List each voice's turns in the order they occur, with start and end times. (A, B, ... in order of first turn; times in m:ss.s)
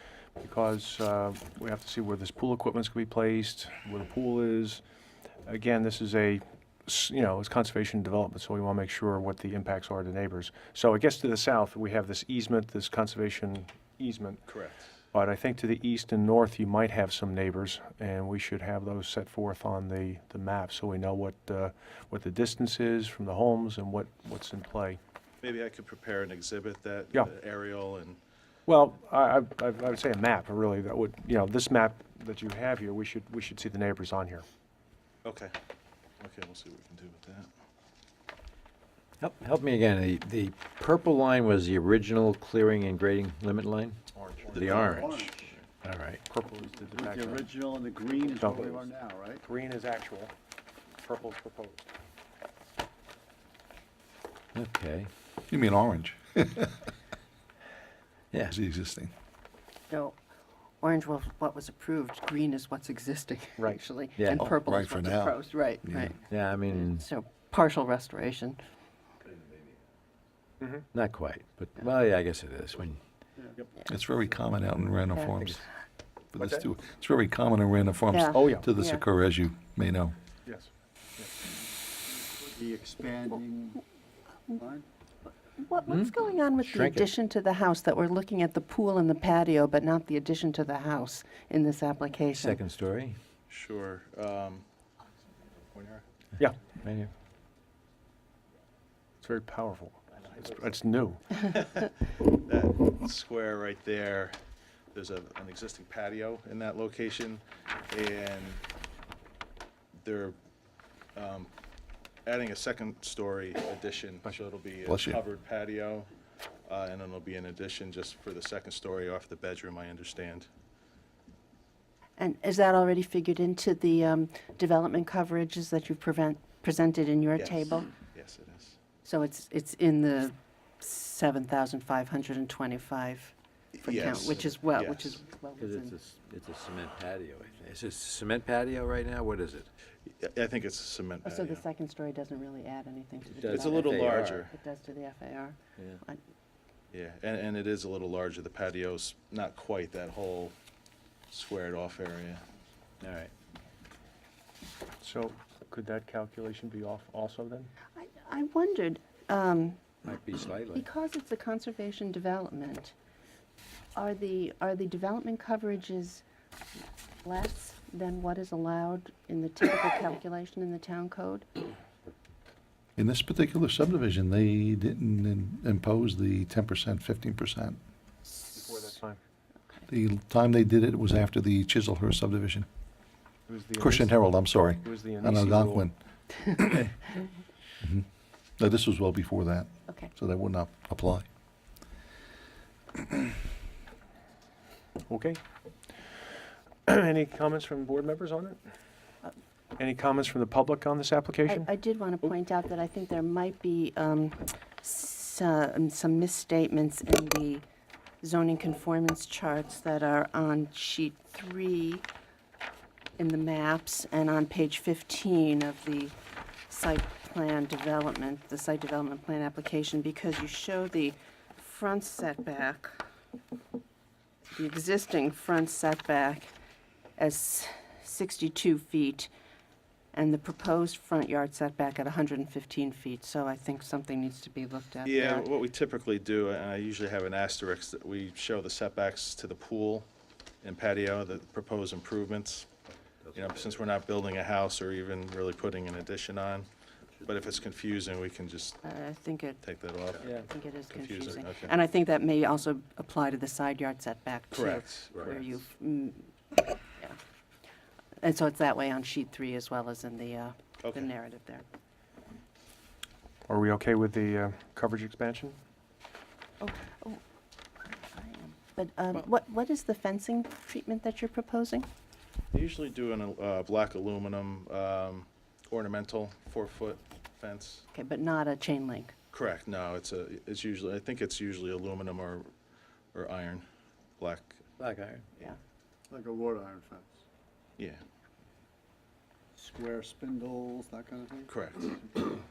0:00.4-0:04.8 A
0:05.4-0:25.0 A
0:14.4-0:14.9 B
0:25.4-0:28.2 B
0:28.6-0:34.4 A
0:35.2-0:35.5 B
0:36.2-0:37.5 B
0:39.2-0:44.0 C
0:44.2-0:45.0 B
0:44.4-0:45.6 D
0:44.5-0:46.2 C
0:46.2-0:47.5 A
0:46.8-0:49.4 D
0:48.4-0:48.9 A
0:49.4-0:50.3 A
0:51.0-0:51.8 A
0:54.5-0:55.1 C
0:55.5-0:56.8 E
0:58.5-0:59.1 E
0:59.9-1:00.2 F
1:00.8-1:08.6 F
1:04.2-1:04.4 C
1:04.4-1:06.1 E
1:06.3-1:07.0 C
1:10.6-1:10.9 A
1:10.9-1:13.0 C
1:13.8-1:15.6 E
1:15.4-1:15.6 C
1:16.3-1:20.1 E
1:18.1-1:19.0 F
1:18.3-1:18.7 A
1:20.4-1:21.3 A
1:22.1-1:23.8 D
1:24.6-1:24.8 D
1:25.3-1:32.6 F
1:25.9-1:27.1 C
1:32.3-1:33.2 C
1:33.5-1:34.6 B
1:35.7-1:36.0 B
1:36.8-1:37.1 C
1:39.2-1:41.3 A
1:40.2-1:40.7 B
1:41.4-1:44.4 B
1:44.9-1:48.6 B
1:50.0-1:50.4 B
1:51.2-1:51.5 B
1:52.2-1:56.1 B
1:54.8-1:55.2 E
1:56.7-2:00.5 B
2:02.2-2:07.9 F
2:07.4-2:08.8 B
2:09.0-2:15.9 F
2:13.7-2:15.2 B
2:15.6-2:19.7 C
2:20.1-2:21.6 B
2:21.2-2:26.2 F
2:23.3-2:24.4 C
2:23.4-2:24.5 B
2:26.9-2:30.6 B
2:31.3-2:32.4 B
2:33.0-2:33.3 C
2:35.0-2:37.7 A
2:38.0-2:39.8 F
2:40.0-2:40.9 C
2:40.7-2:42.9 F
2:44.0-2:46.2 F
2:47.2-2:51.5 F
2:53.0-2:57.8 E
2:58.5-2:59.2 A
2:59.9-3:02.6 E
3:03.5-3:05.9 A
3:03.8-3:05.9 E
3:06.5-3:06.8 E
3:07.8-3:08.0 E
3:08.6-3:11.2 E
3:15.1-3:16.1 A
3:16.9-3:18.7 A
3:19.8-3:21.7 A
3:21.5-3:27.6 F
3:28.2-3:32.0 F
3:33.2-3:36.1 F
3:36.7-3:43.0 F
3:44.5-3:46.5 F
3:47.2-3:49.3 F
3:50.1-3:55.5 F
3:55.0-4:00.1 B
4:00.6-4:02.7 B
4:03.3-4:06.7 B
4:07.2-4:08.8 B
4:08.8-4:09.6 F
4:09.6-4:10.3 B
4:10.2-4:10.5 C
4:10.2-4:17.2 F
4:10.9-4:11.7 B
4:14.5-4:14.9 B
4:18.2-4:21.6 F
4:20.8-4:21.1 B
4:23.5-4:25.6 A
4:26.6-4:27.2 F
4:27.8-4:31.9 F
4:32.5-4:37.8 B
4:37.9-4:39.2 F
4:39.3-4:42.5 B
4:43.1-4:43.6 B
4:44.2-4:44.6 B
4:44.8-4:45.2 C
4:46.1-4:47.2 D
4:47.8-4:48.0 B
4:49.6-4:52.4 D
4:51.5-4:51.9 B